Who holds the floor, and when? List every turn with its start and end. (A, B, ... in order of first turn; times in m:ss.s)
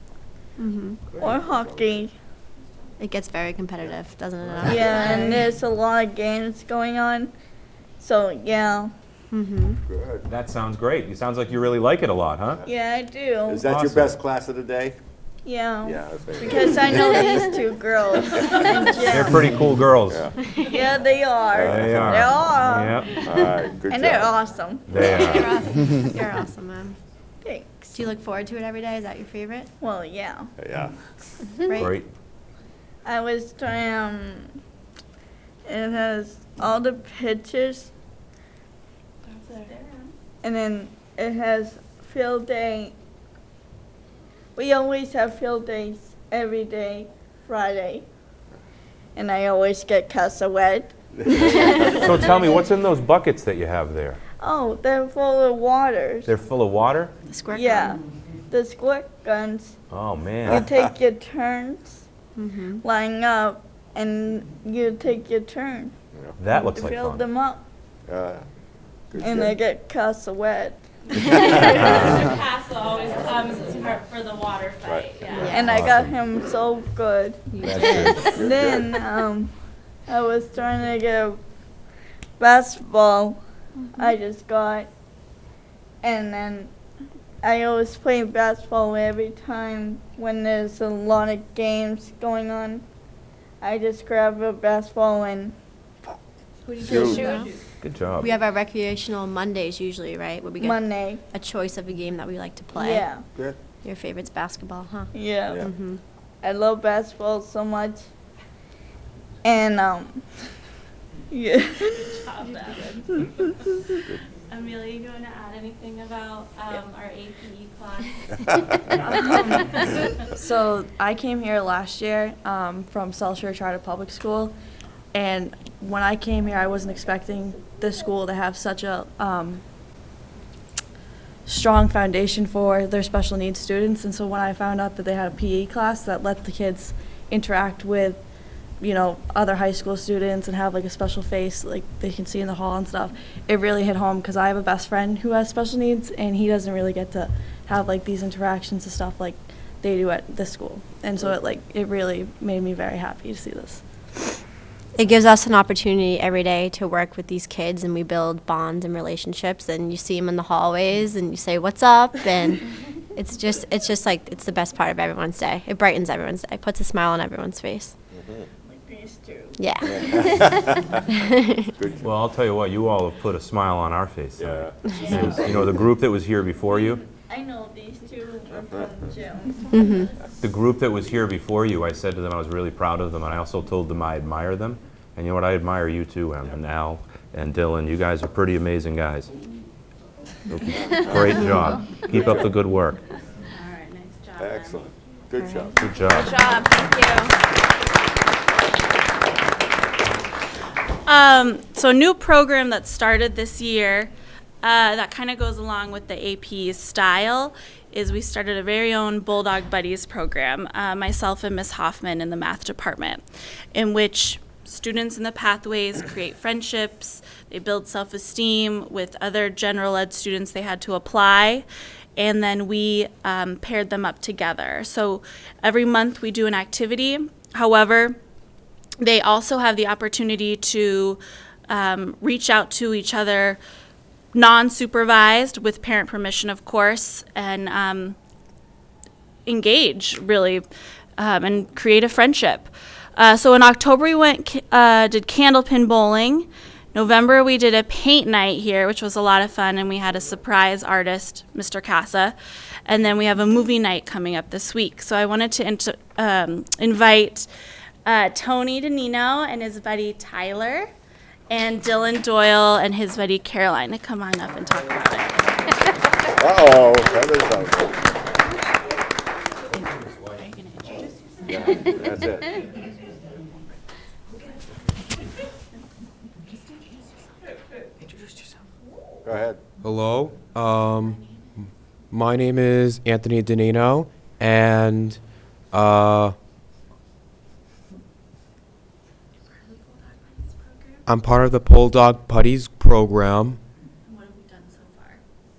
0:00.6-0:01.0 A
0:01.1-0:02.0 B
0:01.2-0:02.1 C
0:03.0-0:05.4 A
0:03.8-0:04.9 B
0:04.6-0:07.3 C
0:08.0-0:08.9 C
0:09.3-0:09.8 A
0:09.9-0:10.3 B
0:10.3-0:12.6 D
0:12.6-0:13.6 C
0:13.5-0:15.0 B
0:13.6-0:14.2 D
0:15.4-0:19.5 C
0:15.8-0:17.4 B
0:19.1-0:20.2 D
0:20.1-0:20.3 B
0:20.6-0:23.3 C
0:21.5-0:22.2 B
0:21.6-0:23.2 D
0:23.2-0:24.3 B
0:23.9-0:24.9 C
0:24.9-0:25.6 D
0:24.9-0:25.7 B
0:25.3-0:27.0 A
0:27.4-0:28.0 C
0:27.9-0:29.7 A
0:29.8-0:30.5 C
0:30.6-0:30.9 B
0:31.7-0:32.1 D
0:33.0-0:34.5 C
0:35.7-0:37.9 C
0:39.3-0:40.1 E
0:40.4-0:43.0 C
0:44.6-0:48.1 C
0:49.2-0:51.8 C
0:51.2-0:52.0 B
0:51.9-0:54.2 D
0:54.4-0:56.3 C
0:56.3-0:57.1 D
0:57.3-0:58.0 A
0:57.5-0:59.8 C
0:59.9-1:00.6 D
1:00.5-1:02.0 C
1:02.4-1:02.8 A
1:02.8-1:05.9 C
1:06.4-1:07.2 D
1:06.7-1:07.6 C
1:08.1-1:08.5 B
1:09.1-1:09.6 B
1:09.2-1:10.8 C
1:11.1-1:15.5 E
1:11.7-1:12.3 D
1:15.4-1:15.7 A
1:15.5-1:16.2 D
1:15.5-1:19.5 C
1:17.6-1:18.2 A
1:17.6-1:18.4 D
1:18.0-1:18.9 B
1:20.1-1:21.4 C
1:22.4-1:23.4 C
1:24.0-1:24.9 C
1:26.0-1:26.7 C
1:27.4-1:32.8 C
1:33.6-1:35.6 C
1:36.7-1:37.6 E
1:36.8-1:37.3 B
1:37.0-1:37.5 A
1:37.8-1:38.3 D
1:38.2-1:43.1 A
1:40.6-1:41.2 C
1:42.7-1:43.2 C
1:43.8-1:45.1 A
1:45.1-1:45.7 C
1:45.5-1:45.7 B
1:45.6-1:46.0 A
1:46.4-1:48.1 C
1:49.4-1:50.2 C
1:51.3-1:52.0 C
1:51.9-1:53.7 E
1:54.5-1:58.8 E
1:59.0-1:59.7 F
2:00.4-2:04.6 F
2:05.1-2:09.6 F
2:11.5-2:18.2 F
2:18.8-2:33.8 F
2:35.0-2:48.0 A
2:48.2-2:48.4 B
2:48.6-2:50.3 C
2:49.6-2:50.6 A
2:49.9-2:51.0 B
2:51.7-2:52.2 B
2:52.0-2:57.0 D
2:54.4-2:54.8 B
2:55.0-2:55.4 C
2:56.7-3:00.1 C
2:58.5-2:59.0 B
2:59.7-3:00.1 A
3:00.4-3:09.3 D
3:10.5-3:13.0 D
3:12.1-3:12.5 B
3:13.5-3:14.9 E
3:14.4-3:15.8 B
3:15.7-3:16.4 D
3:16.0-3:17.4 E
3:21.1-3:24.1 E
3:24.6-3:33.2 E
3:33.8-3:41.7 E
3:42.2-3:48.2 E
3:49.0-3:53.6 E
3:54.3-3:58.2 E
3:59.5-4:00.6 E
4:01.2-4:12.4 E
4:12.9-4:17.5 E
4:18.1-4:20.9 E
4:21.5-4:25.8 E
4:26.4-4:28.0 B
4:29.8-4:32.0 E
4:31.5-4:32.6 B
4:39.2-4:39.6 B
4:39.8-4:41.2 G
4:42.1-4:45.2 G
4:45.7-4:46.4 G
4:49.6-4:51.0 E
4:51.1-4:53.6 G
4:54.1-4:55.2 E